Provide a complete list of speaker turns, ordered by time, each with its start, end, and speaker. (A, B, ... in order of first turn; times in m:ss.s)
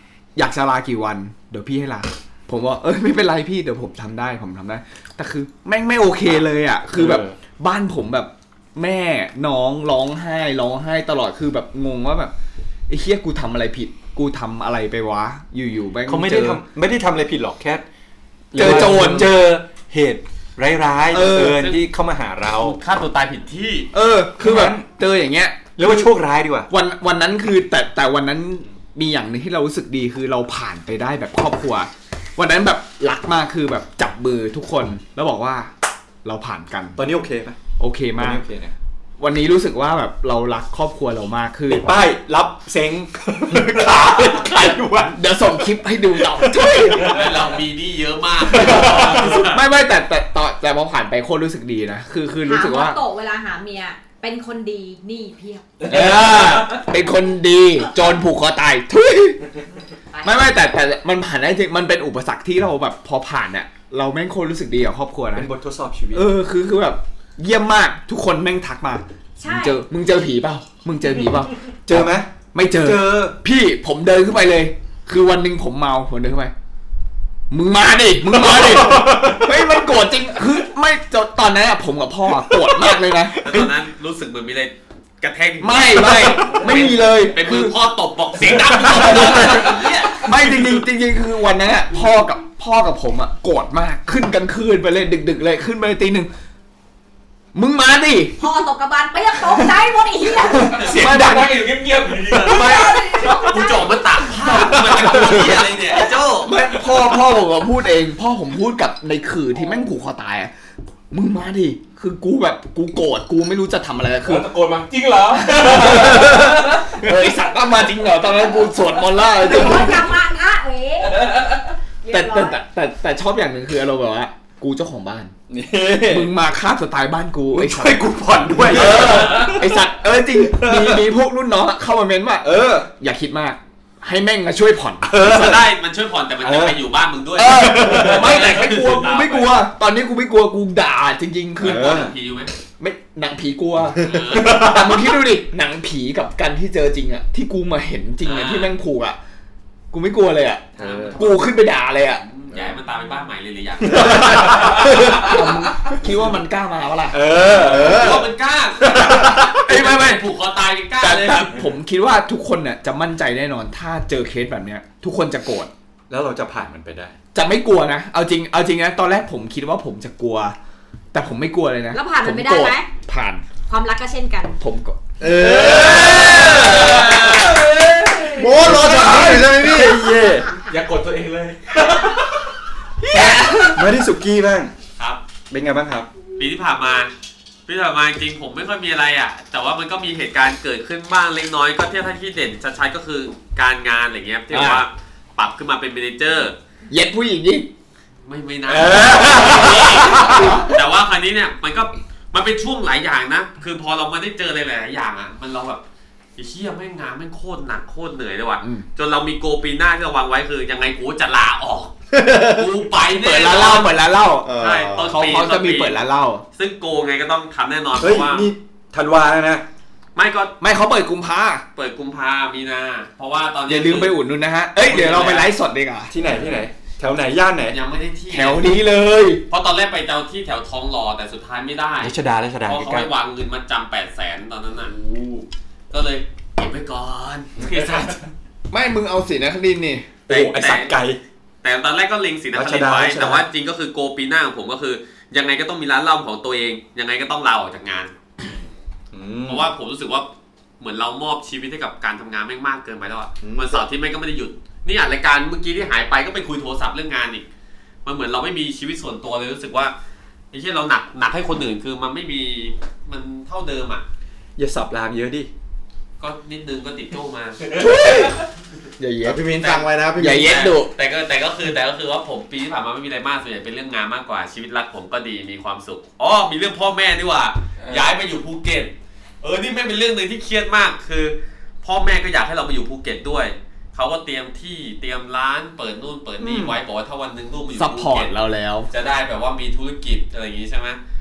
0:00.4-0:12.3 A
0:06.9-0:07.4 B
0:12.9-0:16.6 A
0:16.1-0:17.8 B
0:18.5-0:22.8 B
0:18.5-0:19.4 A
0:21.1-0:21.6 A
0:21.3-0:21.8 C
0:22.6-0:23.9 C
0:23.9-0:26.1 A
0:24.4-0:24.8 B
0:25.8-0:26.7 B
0:26.7-0:35.7 A
0:36.2-0:37.0 A
0:37.0-0:37.6 B
0:37.8-0:38.4 A
0:38.2-0:38.7 B
0:39.2-0:41.9 A
0:41.7-0:45.2 B
0:45.1-0:47.2 A
0:46.2-0:46.7 B
0:47.0-0:49.6 C
0:48.4-0:49.4 B
0:48.8-0:49.2 D
0:49.2-0:53.0 A
0:52.4-0:55.8 E
0:55.8-0:59.4 A
0:55.9-0:56.6 B
1:00.1-1:00.5 E
1:00.2-1:05.5 A
1:05.3-1:06.3 B
1:06.1-1:16.5 A
1:09.4-1:09.8 E
1:11.8-1:13.4 B
1:17.5-1:23.4 A
1:18.4-1:19.5 B
1:23.4-1:23.7 B
1:23.4-1:30.3 C
1:25.6-1:27.7 A
1:26.2-1:26.7 B
1:28.8-1:36.3 A
1:37.5-1:38.4 A
1:38.4-1:40.9 E
1:40.6-1:41.6 A
1:40.7-1:43.1 D
1:40.9-1:41.4 B
1:42.3-1:46.6 C
1:42.4-1:44.4 E
1:44.9-1:45.5 B
1:46.4-1:50.5 A
1:51.1-1:54.5 A
1:54.2-1:56.4 D
1:55.4-2:00.1 A
1:59.3-2:01.3 E
2:02.0-2:02.6 E
2:02.1-2:05.3 A
2:05.5-2:06.3 B
2:06.0-2:08.0 A
2:07.5-2:09.8 B
2:08.6-2:15.5 A
2:09.0-2:09.5 C
2:10.5-2:11.0 B
2:12.4-2:12.9 B
2:15.1-2:15.6 B
2:15.2-2:19.6 C
2:16.4-2:16.8 B
2:17.4-2:18.5 B
2:17.4-2:22.0 A
2:21.6-2:22.1 B
2:21.6-2:22.5 C
2:22.8-2:29.2 A
2:24.0-2:24.7 C
2:24.4-2:24.8 B
2:28.2-2:28.7 C
2:29.9-2:32.2 A
2:30.8-2:31.2 B
2:30.8-2:31.5 C
2:32.2-2:35.2 C
2:33.9-2:35.3 B
2:34.8-2:37.2 A
2:37.1-2:38.3 B
2:37.4-2:38.1 D
2:37.6-2:41.6 C
2:38.9-2:39.6 B
2:39.6-2:40.2 A
2:41.0-2:45.7 A
2:46.1-2:47.1 B
2:47.3-2:50.6 A
2:51.1-2:53.4 A
2:51.9-2:52.9 E
2:53.7-2:54.6 E
2:54.6-2:57.5 A
2:55.2-2:56.6 F
2:55.2-2:57.4 B
2:57.2-2:58.8 D
2:58.3-3:00.1 F
2:58.5-3:00.5 B
3:00.6-3:02.3 D
3:03.0-3:03.9 A
3:03.1-3:04.7 B
3:05.0-3:05.2 C
3:05.5-3:06.1 B
3:06.4-3:07.1 C
3:07.7-3:16.6 C
3:14.5-3:14.8 A
3:16.9-3:17.7 A
3:18.2-3:25.8 C
3:18.7-3:20.6 B
3:18.9-3:20.7 A
3:26.4-3:33.9 C
3:28.6-3:28.8 A
3:32.1-3:32.7 F
3:33.1-3:34.5 A
3:34.4-3:35.1 F
3:34.6-3:36.0 C
3:35.1-3:36.4 A
3:36.6-3:38.5 C
3:38.0-3:39.6 B
3:40.2-3:40.5 C
3:40.6-3:41.6 A
3:41.8-3:44.2 C
3:43.7-3:46.1 A
3:44.8-3:45.5 C
3:46.1-3:47.8 B
3:46.2-3:46.5 D
3:47.7-3:48.7 C
3:48.3-3:49.4 A
3:49.5-3:54.9 C
3:52.0-3:53.1 B
3:55.1-3:55.4 D
3:55.9-3:58.3 C
3:58.7-4:00.1 A
4:00.3-4:01.2 B
4:00.3-4:00.9 C
4:01.6-4:08.1 C
4:02.5-4:03.4 B
4:09.1-4:09.7 B
4:09.4-4:10.3 C
4:10.8-4:17.4 C
4:13.4-4:13.8 F
4:18.0-4:19.9 C
4:20.5-4:24.0 C
4:24.6-4:25.5 B
4:26.2-4:27.6 C
4:27.7-4:28.4 A
4:29.0-4:29.5 A
4:29.2-4:30.7 F
4:29.6-4:48.3 C
4:30.2-4:30.9 A
4:46.4-4:46.7 A
4:47.7-4:48.9 A
4:48.9-4:51.0 C